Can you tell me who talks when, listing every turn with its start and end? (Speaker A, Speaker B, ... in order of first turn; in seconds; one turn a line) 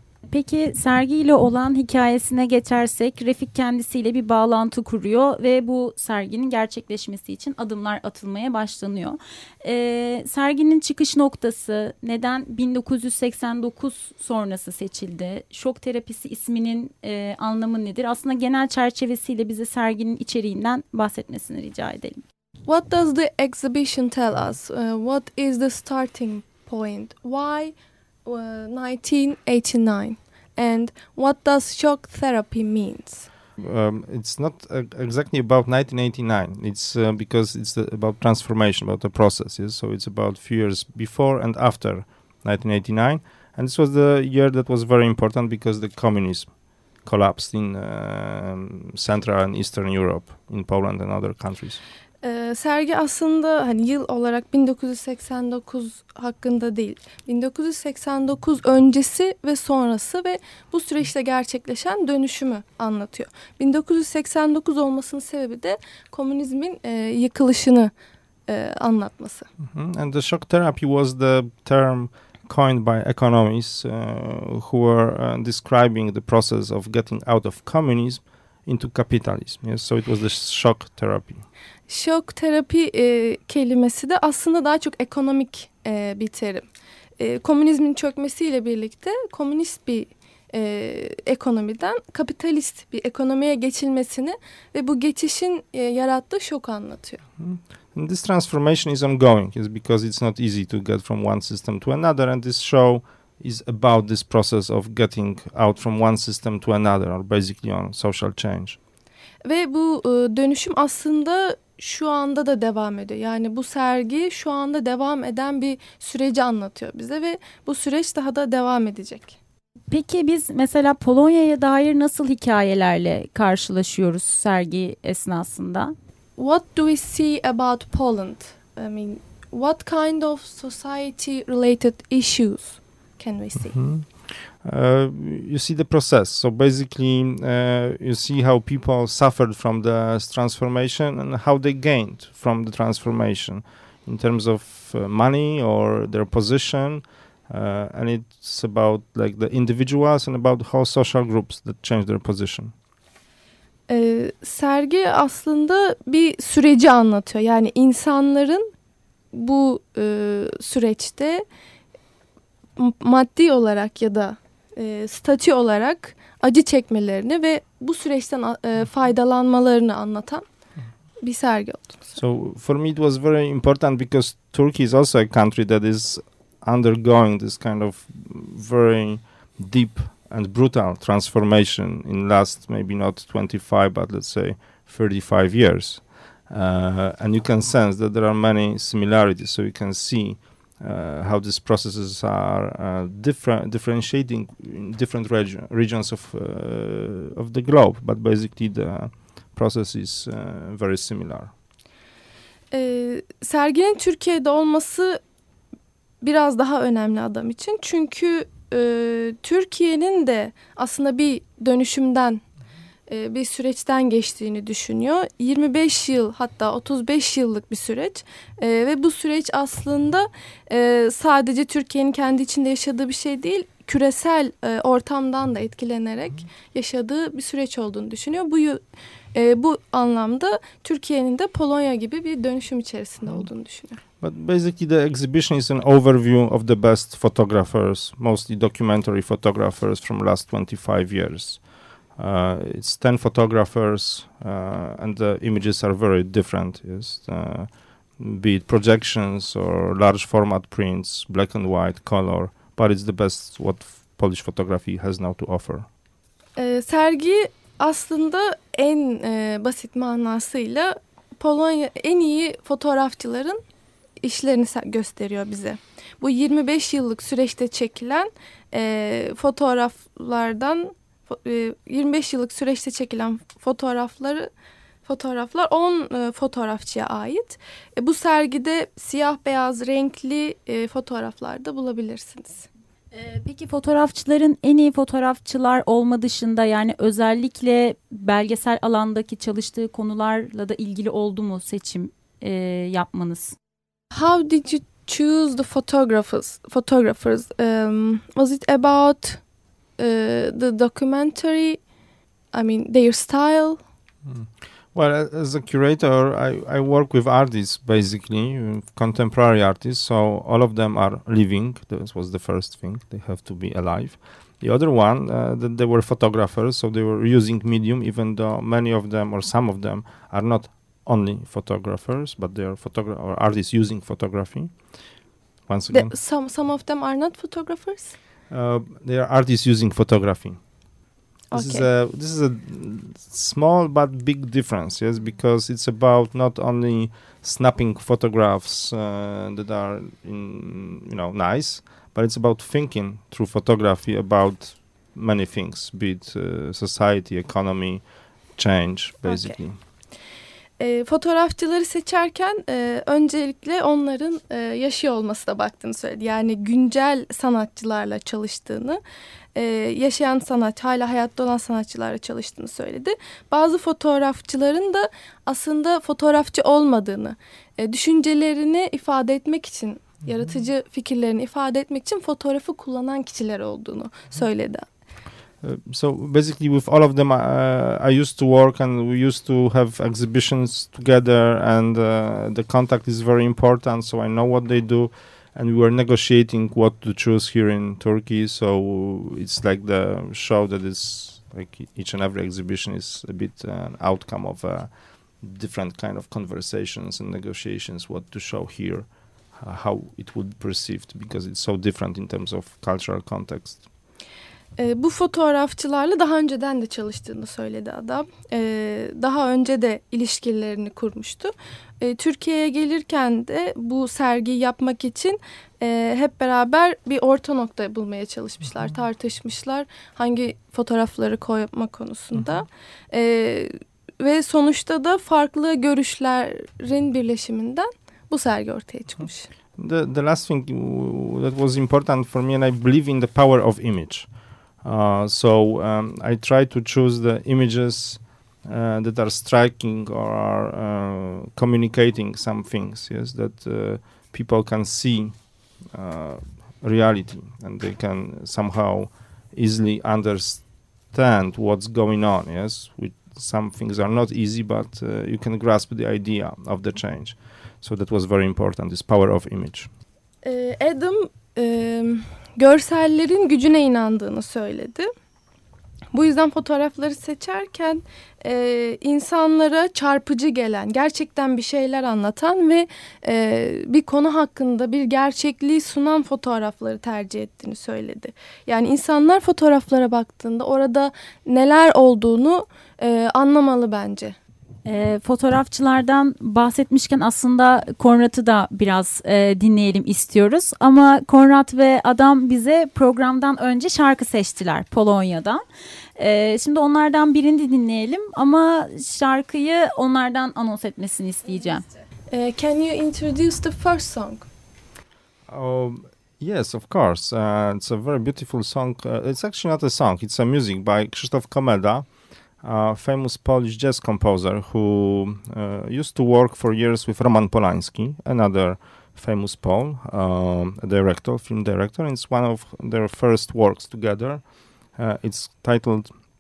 Speaker A: 0.3-22.2
Speaker B: 22.7-27.8
Speaker B: 28.3-33.3
Speaker C: 33.6-46.5
Speaker C: 47.0-51.8
Speaker B: 52.2-67.9
Speaker B: 68.5-69.5
Speaker C: 69.6-81.5
Speaker B: 81.9-86.7
Speaker B: 87.2-97.2
Speaker C: 97.4-108.8
Speaker B: 109.5-119.4
Speaker A: 119.9-126.0
Speaker B: 126.4-133.8
Speaker C: 133.7-152.7
Speaker B: 153.9-158.7
Speaker B: 159.3-161.4
Speaker B: 162.8-170.4
Speaker B: 171.2-172.1
Speaker C: 172.2-201.5
Speaker B: 202.7-205.2
Speaker B: 206.2-212.4
Speaker B: 213.1-228.8
Speaker B: 229.3-234.0
Speaker C: 234.2-241.6
Speaker C: 242.2-255.9
Speaker B: 256.6-263.6
Speaker B: 264.2-274.5
Speaker B: 275.1-282.7
Speaker A: 283.1-293.6
Speaker B: 294.1-299.4
Speaker B: 300.0-301.8
Speaker B: 302.5-303.8
Speaker C: 304.2-324.7
Speaker C: 325.7-326.1
Speaker B: 325.9-328.2
Speaker C: 328.5-330.6
Speaker B: 331.5-331.9
Speaker C: 331.5-349.8
Speaker B: 349.3-349.6
Speaker B: 350.8-359.0
Speaker B: 359.6-374.9
Speaker C: 375.6-403.9
Speaker B: 404.8-429.5
Speaker C: 422.3-422.6
Speaker C: 429.8-434.3
Speaker C: 434.8-445.4
Speaker C: 445.9-459.9
Speaker B: 460.4-465.1
Speaker B: 466.1-484.4
Speaker A: 484.9-495.6
Speaker A: 496.2-501.9
Speaker B: 502.3-504.5
Speaker C: 505.5-512.1
Speaker C: 512.6-524.4
Speaker C: 525.0-526.1